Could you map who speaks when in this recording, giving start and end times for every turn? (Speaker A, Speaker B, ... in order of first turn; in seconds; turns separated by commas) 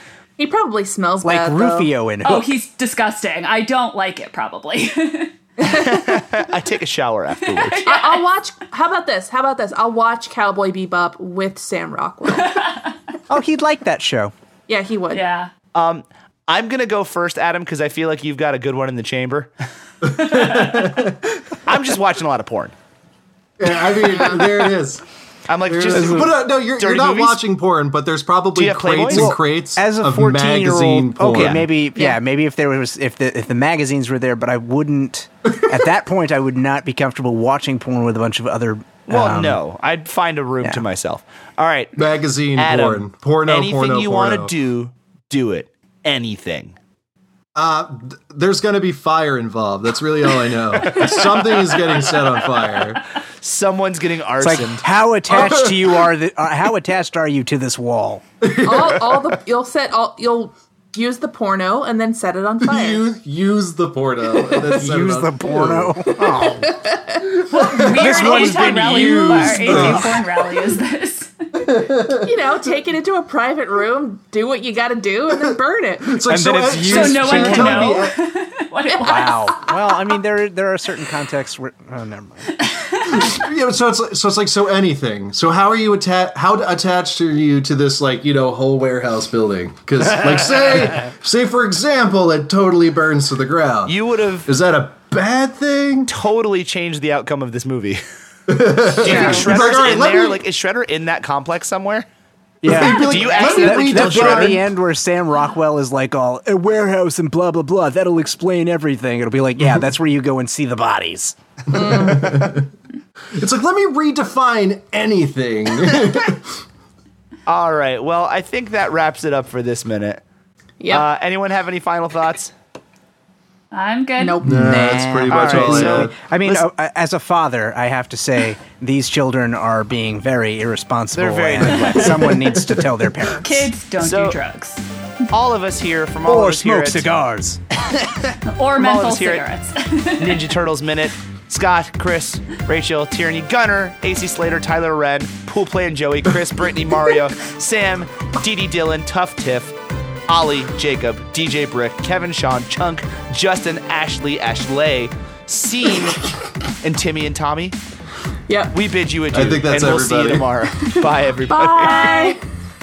Speaker A: 0.4-1.9, Speaker B: 1.2-2.5, Speaker C: 2.2-5.3, Speaker A: 5.6-6.2, Speaker D: 5.6-7.9, Speaker C: 7.4-8.3, Speaker A: 7.9-12.6, Speaker C: 12.3-12.9, Speaker B: 13.3-14.3, Speaker A: 14.7-15.2, Speaker C: 15.1-15.5, Speaker D: 15.7-19.5, Speaker E: 20.0-21.6, Speaker D: 20.3-20.7, Speaker D: 21.6-22.7, Speaker E: 23.6-25.0, Speaker D: 25.5-27.4, Speaker E: 25.7-31.7, Speaker B: 25.9-26.3, Speaker D: 28.6-29.3, Speaker B: 29.1-39.6, Speaker D: 31.3-31.6, Speaker D: 39.1-42.0, Speaker E: 42.0-44.5, Speaker D: 42.5-46.8, Speaker E: 47.5-53.0, Speaker D: 53.4-54.9, Speaker B: 54.4-58.2, Speaker E: 55.3-55.9, Speaker E: 58.4-59.2, Speaker A: 58.6-63.0, Speaker E: 62.6-66.2, Speaker A: 64.3-64.8, Speaker B: 64.7-66.7, Speaker A: 66.1-67.4, Speaker E: 67.2-70.3, Speaker C: 67.4-71.3, Speaker B: 68.0-70.1, Speaker D: 68.1-69.5, Speaker E: 71.5-72.4, Speaker A: 72.2-76.2, Speaker E: 76.0-78.2, Speaker B: 76.3-78.0, Speaker C: 76.8-79.5, Speaker A: 78.9-79.7, Speaker B: 79.0-82.5, Speaker C: 82.6-83.2, Speaker E: 83.0-96.1, Speaker D: 93.9-94.5, Speaker D: 96.1-98.0, Speaker E: 98.5-100.4, Speaker D: 98.8-102.0, Speaker A: 99.0-99.5, Speaker C: 99.1-99.4, Speaker E: 102.6-104.7, Speaker B: 102.6-111.3, Speaker D: 102.9-104.6, Speaker A: 103.1-103.5, Speaker E: 111.7-112.7, Speaker A: 111.7-112.5, Speaker E: 113.3-116.6, Speaker D: 117.5-120.2, Speaker A: 120.8-121.0, Speaker D: 120.9-122.5, Speaker C: 123.7-124.4, Speaker A: 124.2-124.9, Speaker E: 124.4-126.1, Speaker B: 124.4-133.7, Speaker D: 125.3-126.7, Speaker D: 131.1-132.4, Speaker C: 133.4-134.9, Speaker D: 134.0-134.4, Speaker D: 135.3-137.1, Speaker B: 136.3-137.6, Speaker D: 137.8-139.4, Speaker C: 138.4-140.5, Speaker D: 140.2-149.8, Speaker D: 150.3-157.8, Speaker A: 158.5-158.7, Speaker D: 158.7-162.4, Speaker E: 159.3-160.6, Speaker A: 160.9-162.4